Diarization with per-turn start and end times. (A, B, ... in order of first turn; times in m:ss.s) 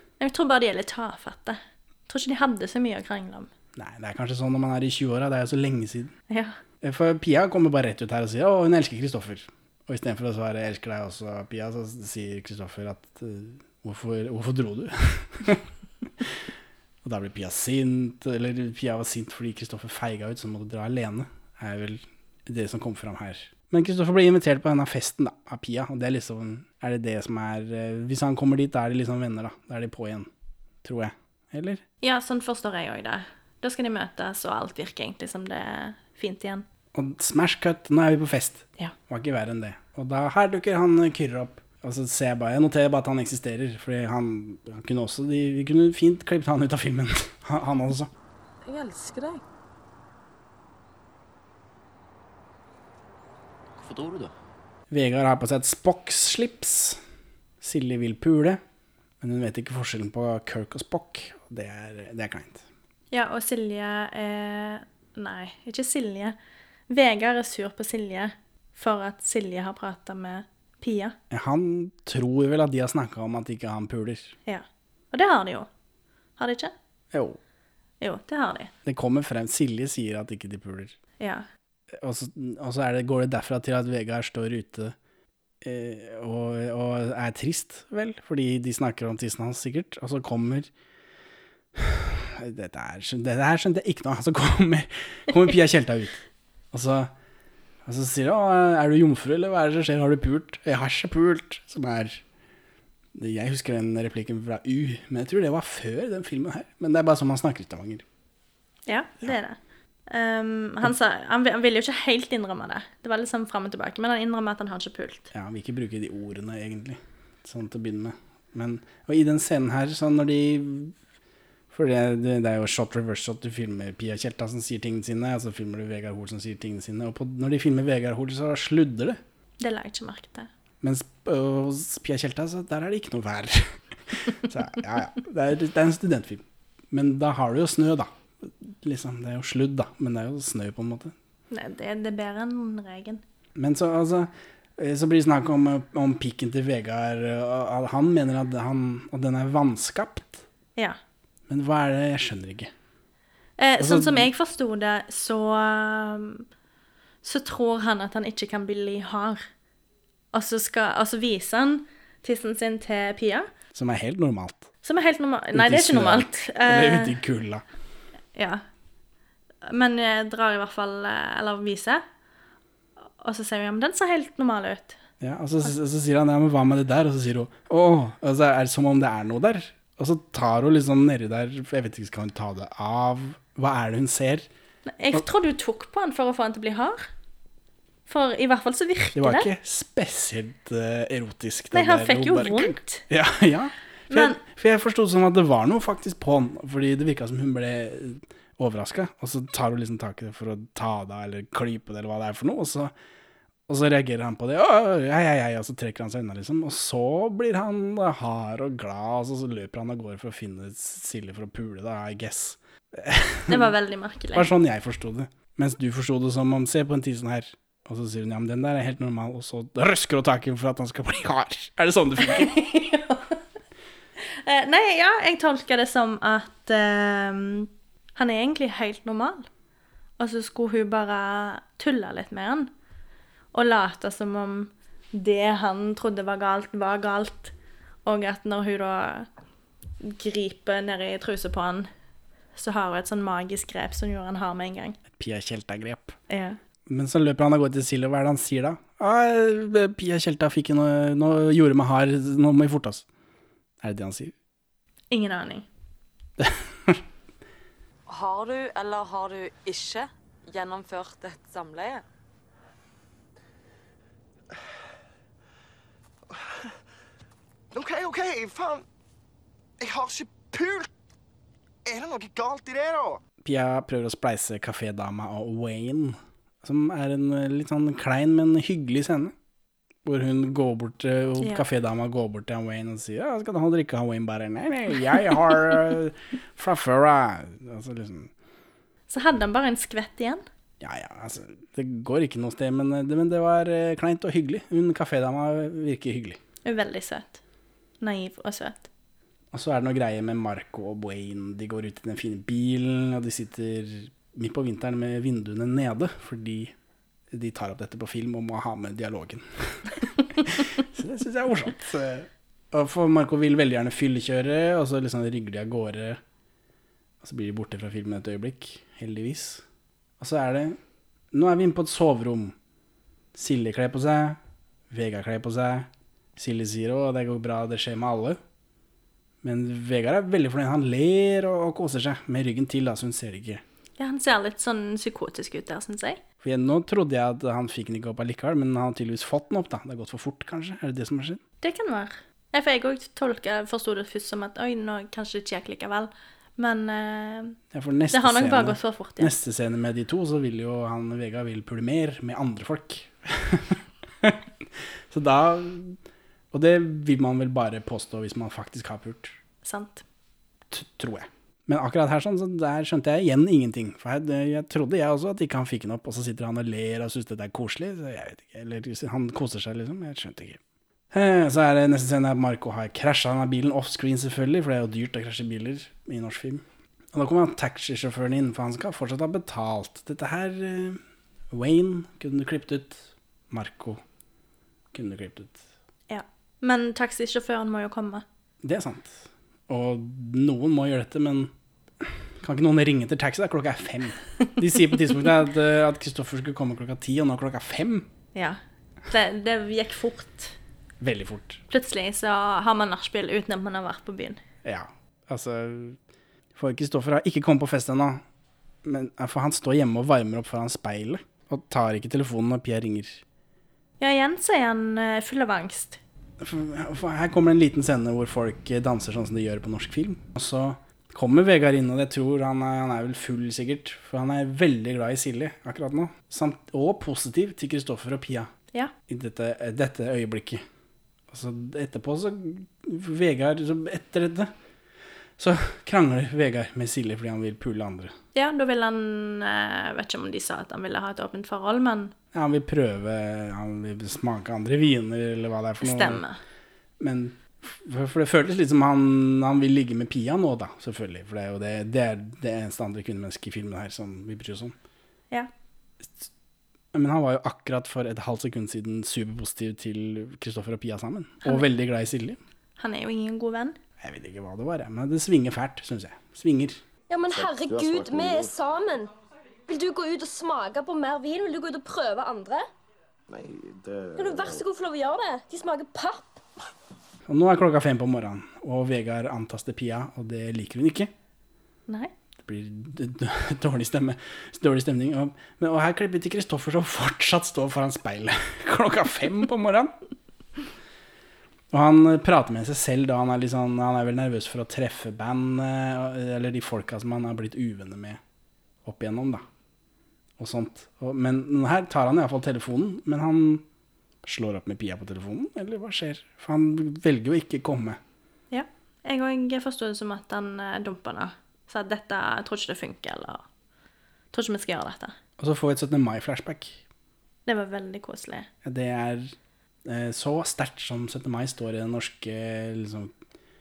0:00.2-0:03.5 A
0:03.8-0:06.1 B
0:06.3-0:06.6 A
0:06.8-0:15.6 B
0:17.0-0:30.3 B
0:30.8-0:31.8 B
0:32.0-0:36.6 A
0:36.9-0:48.1 B
0:48.6-0:49.4 C
0:54.9-0:57.0 B
0:57.6-0:58.6 B
0:59.2-1:02.6 B
1:03.1-1:06.4 A
1:06.9-1:11.1 A
1:11.3-1:14.3 B
1:14.5-1:15.7 A
1:16.4-1:16.7 A
1:17.1-1:17.4 B
1:18.0-1:18.7 A
1:18.8-1:21.0 B
1:21.2-1:21.4 A
1:22.0-1:24.9 B
1:25.6-1:30.7 B
1:31.8-1:37.1 B
1:37.8-1:42.2 B
1:43.1-1:48.0 B
1:48.9-1:55.3 A
1:55.3-2:00.9 B
2:01.7-2:09.2 B
2:09.6-2:10.5 A
2:10.8-2:21.1 B
2:21.5-2:23.2 A
2:23.6-2:30.4 B
2:31.5-2:32.7 B
2:33.6-2:36.4 A
2:33.8-2:34.3 B
2:37.2-2:39.4 A
2:40.3-2:43.5 A
2:43.7-2:44.7 B
2:44.8-2:47.1 A
2:45.5-2:47.6 B
2:48.3-2:48.6 A
2:49.6-2:52.0 A
2:53.2-2:55.0 A
2:55.2-3:04.5 B
3:04.9-3:07.1 A
3:08.1-3:09.5 A
3:09.1-3:22.9 B
3:11.7-3:13.0 A
3:14.1-3:14.4 A
3:23.7-3:33.7 B
3:33.5-3:34.5 A
3:34.3-3:42.6 B
3:42.2-3:43.4 A
3:44.3-3:49.5 A
3:50.2-3:52.7 A
3:53.5-3:57.5 A
3:58.0-3:59.3 A
4:00.0-4:01.9 A
4:02.5-4:05.0 A
4:05.1-4:06.2 B
4:06.3-4:06.6 A
4:06.9-4:13.0 B
4:13.8-4:14.3 B
4:15.1-4:15.6 A
4:16.4-4:17.0 B
4:18.1-4:22.0 C
4:27.7-4:28.8 D
4:29.8-4:30.9 D
4:31.8-4:33.2 D
4:33.4-4:39.3 B
4:40.0-4:48.3 B
4:49.1-4:50.4 A
4:50.8-4:56.4 B
4:56.6-4:57.4 A
4:58.0-4:58.9 A
4:59.5-5:06.7 B
5:07.3-5:16.2 B
5:17.2-5:19.6 B
5:20.2-5:20.8 B
5:21.3-5:22.5 B
5:23.3-5:24.4 B
5:24.9-5:28.4 B
5:29.4-5:33.6 B
5:34.0-5:36.2 A
5:36.4-5:41.4 B
5:41.6-5:47.6 A
5:47.7-5:54.4 B
5:48.1-5:49.3 A
5:55.1-5:56.0 B
5:56.5-5:59.4 B
5:59.6-6:00.0 A
6:00.7-6:10.6 B
6:11.1-6:16.6 B
6:17.1-6:21.0 B
6:21.5-6:24.0 B
6:24.9-6:25.6 B
6:26.1-6:28.2 A
6:28.6-6:31.5 B
6:32.0-6:38.1 B
6:39.1-6:40.6 A
6:41.0-6:41.6 B
6:41.7-6:44.4 A
6:44.6-6:46.0 B
6:46.6-6:48.2 B
6:48.8-6:53.2 B
6:54.0-6:56.0 A
6:56.4-7:08.5 B
7:09.1-7:10.6 B
7:11.3-7:14.5 B
7:15.4-7:18.1 B
7:18.3-7:22.1 A
7:22.3-7:26.2 B
7:25.8-7:26.4 A
7:27.0-7:34.7 B
7:36.9-7:42.4 B
7:42.8-7:43.8 A
7:44.0-7:46.8 B
7:47.1-7:49.1 E
7:47.3-7:48.5 F
7:49.7-7:52.6 E
7:53.3-7:54.6 F
7:54.1-7:56.4 E
7:57.3-8:01.1 B
8:02.4-8:09.9 B
8:11.7-8:18.2 B
8:18.8-8:19.4 B
8:20.4-8:23.6 B
8:24.2-8:28.0 B
8:28.5-8:33.4 A
8:34.3-8:35.2 A
8:35.4-8:36.8 B
8:37.4-8:38.5 A
8:38.6-8:39.3 B
8:39.8-8:43.1 B